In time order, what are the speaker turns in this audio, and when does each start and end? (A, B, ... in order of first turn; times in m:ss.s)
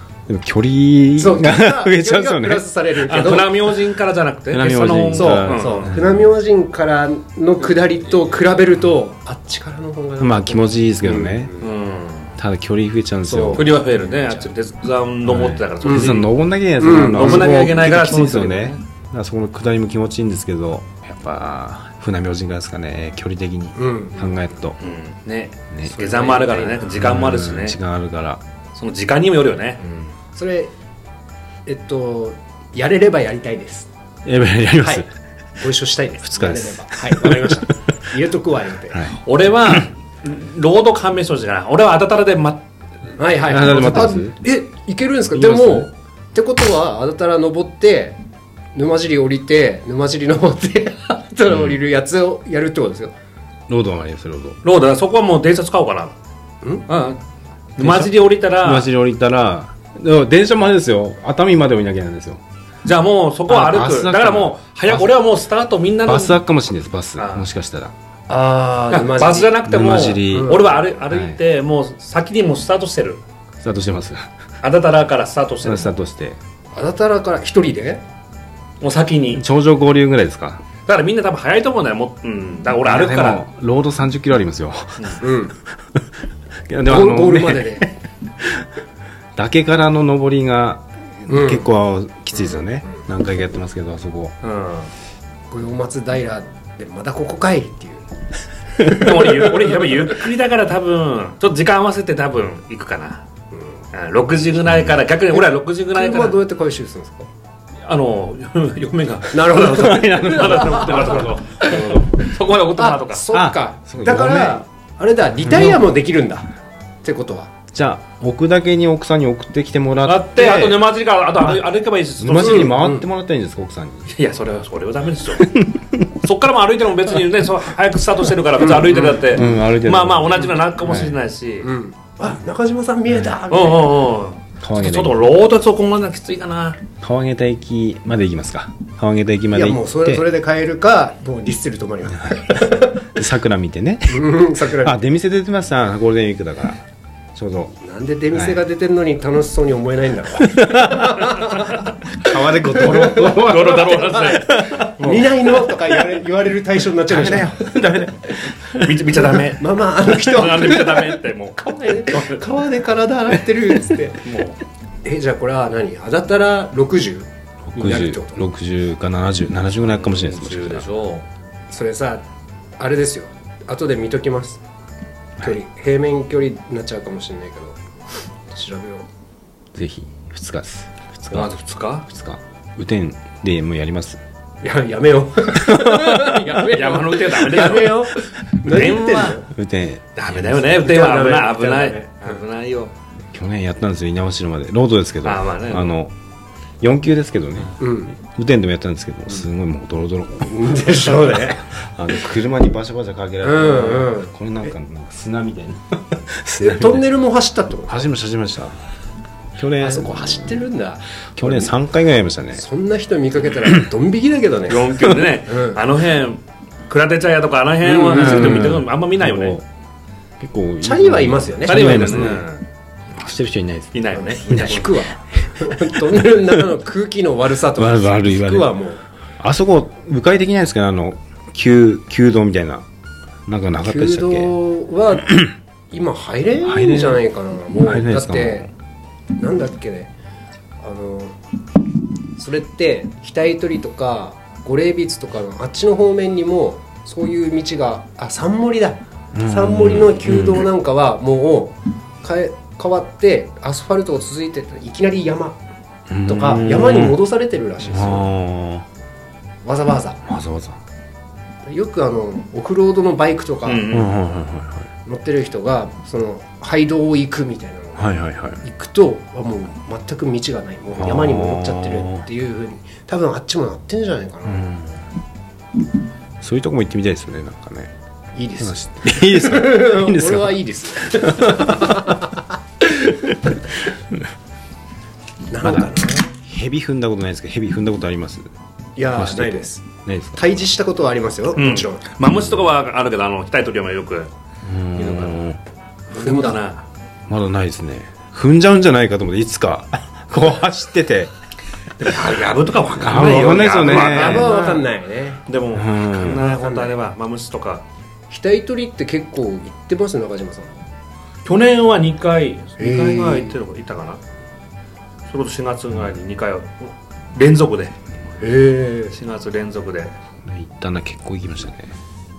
0:00.3-0:03.1 A
0:01.2-0:03.6 B
0:03.0-0:05.9 C
0:04.5-0:06.3 A
0:05.1-0:11.7 B
0:10.2-0:11.5 A
0:11.6-0:12.3 C
0:12.4-0:13.7 A
0:13.2-0:14.5 B
0:13.6-0:16.3 C
0:15.2-0:24.8 A
0:15.8-0:16.2 B
0:16.8-0:17.8 B
0:16.9-0:18.8 C
0:23.8-0:24.4 B
0:24.8-0:27.8 C
0:25.7-0:26.0 A
0:26.0-0:26.9 B
0:27.0-0:28.4 A
0:28.8-0:29.8 C
0:30.3-0:30.7 B
0:31.6-0:33.9 B
0:34.2-0:35.1 A
0:34.8-0:35.1 B
0:35.6-0:39.1 B
0:36.2-0:37.6 A
0:38.9-0:39.8 A
0:39.3-0:42.6 C
0:43.2-0:48.2 B
0:43.4-0:44.4 A
0:45.3-0:45.9 A
0:48.8-0:53.1 B
0:53.7-0:54.6 A
0:54.6-0:56.1 C
0:56.6-0:56.9 B
0:56.9-0:57.2 C
0:57.8-0:58.9 C
0:57.8-1:02.4 A
1:02.8-1:06.4 C
1:03.5-1:05.1 A
1:06.0-1:07.9 A
1:07.2-1:07.5 C
1:08.3-1:09.6 B
1:08.9-1:13.2 C
1:09.6-1:11.4 A
1:10.2-1:10.7 B
1:13.6-1:14.2 A
1:14.6-1:15.9 C
1:15.6-1:16.4 A
1:16.7-1:18.0 B
1:18.8-1:19.4 C
1:19.4-1:20.6 A
1:20.9-1:23.4 C
1:22.8-1:25.2 A
1:25.2-1:25.6 B
1:26.7-1:28.6 A
1:26.9-1:27.9 B
1:29.4-1:34.4 A
1:31.3-1:31.7 B
1:34.4-1:34.9 C
1:35.5-1:38.0 B
1:38.8-1:39.4 B
1:38.8-1:43.2 C
1:43.5-1:43.8 B
1:43.9-1:46.4 C
1:45.3-1:47.3 B
1:47.8-1:53.2 C
1:49.3-1:52.1 B
1:49.5-1:52.2 A
1:52.8-1:56.5 B
1:53.3-1:54.6 A
1:57.0-1:57.5 B
1:57.7-2:00.6 A
2:00.0-2:02.7 C
2:00.4-2:00.8 B
2:02.2-2:04.1 A
2:02.4-2:03.1 B
2:04.1-2:05.6 C
2:05.5-2:05.9 A
2:06.1-2:11.7 C
2:08.6-2:09.6 B
2:09.3-2:11.2 A
2:11.6-2:14.0 B
2:13.1-2:13.4 A
2:13.5-2:16.8 C
2:14.6-2:15.2 A
2:17.0-2:20.3 A
2:19.5-2:23.1 B
2:22.2-2:26.8 A
2:24.1-2:25.0 B
2:27.4-2:27.8 A
2:27.8-2:31.8 B
2:28.3-2:28.6 A
2:30.4-2:31.3 A
2:32.1-2:35.8 A
2:32.8-2:34.4 B
2:33.0-2:35.2 C
2:35.0-2:37.7 B
2:37.0-2:38.9 A
2:38.7-2:42.4 C
2:39.3-2:44.2 B
2:44.2-2:44.6 C
2:45.0-2:48.4 B
2:47.7-2:50.9 A
2:49.9-2:51.2 C
2:51.7-2:52.2 B
2:52.8-2:54.6 B
2:55.4-2:57.8 B
2:58.5-2:59.1 B
2:59.8-3:04.2 A
3:01.3-3:02.1 C
3:04.6-3:09.5 B
3:05.5-3:06.6 A
3:06.6-3:09.4 C
3:09.5-3:10.1 A
3:10.2-3:12.9 C
3:10.4-3:12.4 B
3:13.3-3:16.1 A
3:15.2-3:15.9 C
3:16.8-3:27.1 A
3:17.8-3:18.2 B
3:20.4-3:21.6 B
3:23.4-3:24.3 B
3:26.6-3:28.0 B
3:27.9-3:28.8 A
3:29.6-3:30.7 A
3:29.8-3:31.8 B
3:31.4-3:32.6 A
3:32.5-3:35.8 B
3:34.7-3:39.6 C
3:37.8-3:38.7 B
3:38.1-3:39.7 A
3:40.4-3:42.5 A
3:40.8-3:42.3 B
3:41.7-3:42.6 C
3:43.1-3:44.0 A
3:43.9-3:44.9 C
3:44.1-3:49.0 B
3:44.5-3:45.0 A
3:45.8-3:46.2 A
3:47.8-3:48.7 A
3:49.4-3:52.9 A
3:53.5-3:54.6 A
3:53.8-3:58.7 B
3:56.6-3:58.7 A
3:59.4-4:00.1 B
4:00.8-4:01.4 B
4:02.4-4:15.6 B
4:09.3-4:10.7 A
4:16.1-4:17.2 A
4:16.3-4:18.3 B
4:17.9-4:18.9 A
4:19.6-4:20.2 B
4:20.2-4:20.8 A
4:21.6-4:23.9 B
4:23.6-4:24.1 C
4:23.9-4:24.9 A
4:25.0-4:34.7 B
4:28.0-4:28.6 A
4:30.9-4:32.3 A
4:34.4-4:35.0 A
4:36.4-4:37.9 A
4:38.4-4:43.3 B
4:38.6-4:42.2 A
4:45.5-4:46.4 B
4:45.6-4:48.5 A
4:49.0-4:52.0 B
4:49.1-4:50.6 A
4:51.6-4:54.3 C
4:54.6-4:55.6 A
4:55.0-4:55.4 C
4:56.1-4:56.6 B
4:56.1-4:56.9 C
4:57.3-5:01.3 A
5:02.0-5:04.8 C
5:03.0-5:04.8 A
5:03.8-5:05.4 B
5:05.5-5:07.8 C
5:05.7-5:06.4 A
5:06.4-5:06.9 B
5:08.3-5:10.8 B
5:11.4-5:14.2 C
5:12.8-5:13.6 B
5:15.3-5:18.0 C
5:18.4-5:19.2 B
5:19.1-5:20.1 C
5:20.4-5:21.9 A